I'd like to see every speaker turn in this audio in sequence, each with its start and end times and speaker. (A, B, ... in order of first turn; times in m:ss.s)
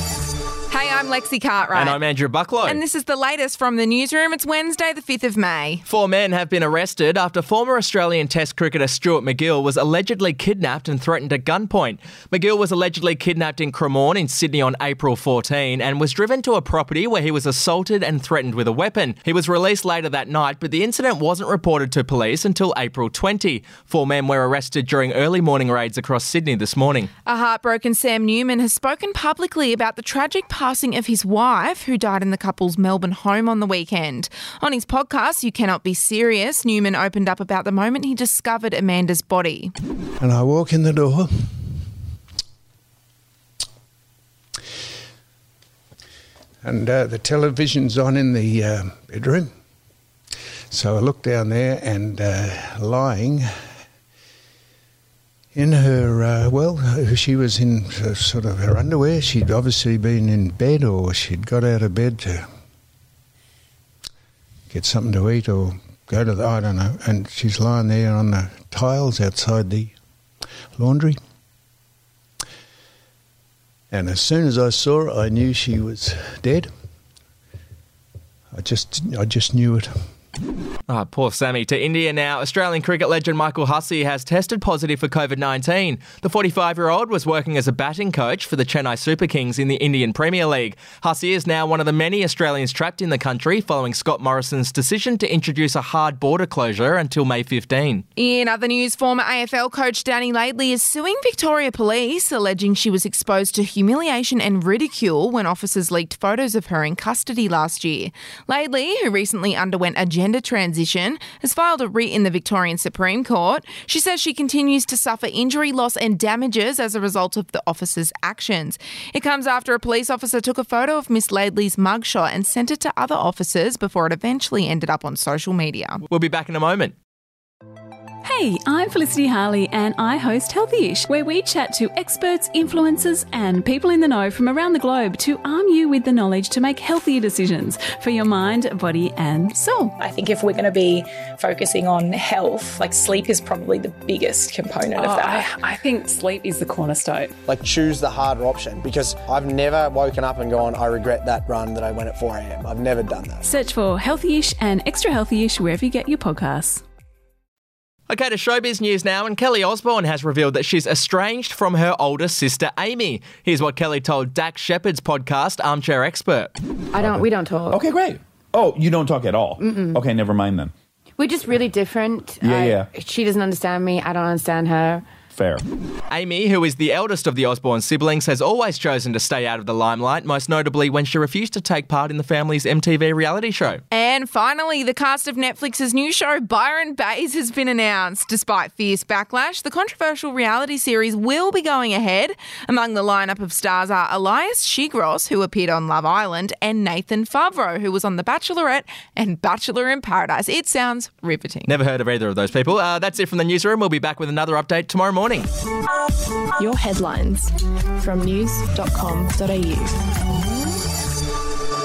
0:00.7-0:02.0 A
0:01.7-0:02.8 B
0:02.6-0:05.8 A
0:05.9-0:27.1 B
0:27.3-0:39.7 A
0:40.2-0:41.7 C
0:46.6-0:49.5 C
0:50.7-0:53.4 C
0:55.6-1:02.4 C
1:04.7-1:09.9 C
1:10.8-1:11.2 C
1:13.9-1:16.7 C
1:18.5-1:19.9 C
1:20.9-1:38.0 B
1:38.2-2:06.0 A
2:06.1-2:06.9 B
2:08.2-2:19.9 D
2:20.0-2:25.6 E
2:25.0-2:25.4 D
2:27.4-2:33.5 F
2:33.4-2:36.8 D
2:38.1-2:46.5 B
2:46.9-2:47.8 G
2:46.9-2:50.7 H
2:49.6-2:49.9 G
2:51.2-2:55.0 G
2:52.4-2:52.9 H
2:55.3-2:55.6 H
2:56.1-3:03.8 B
3:03.9-3:21.7 A
3:21.7-3:25.5 B
3:26.6-3:30.0 I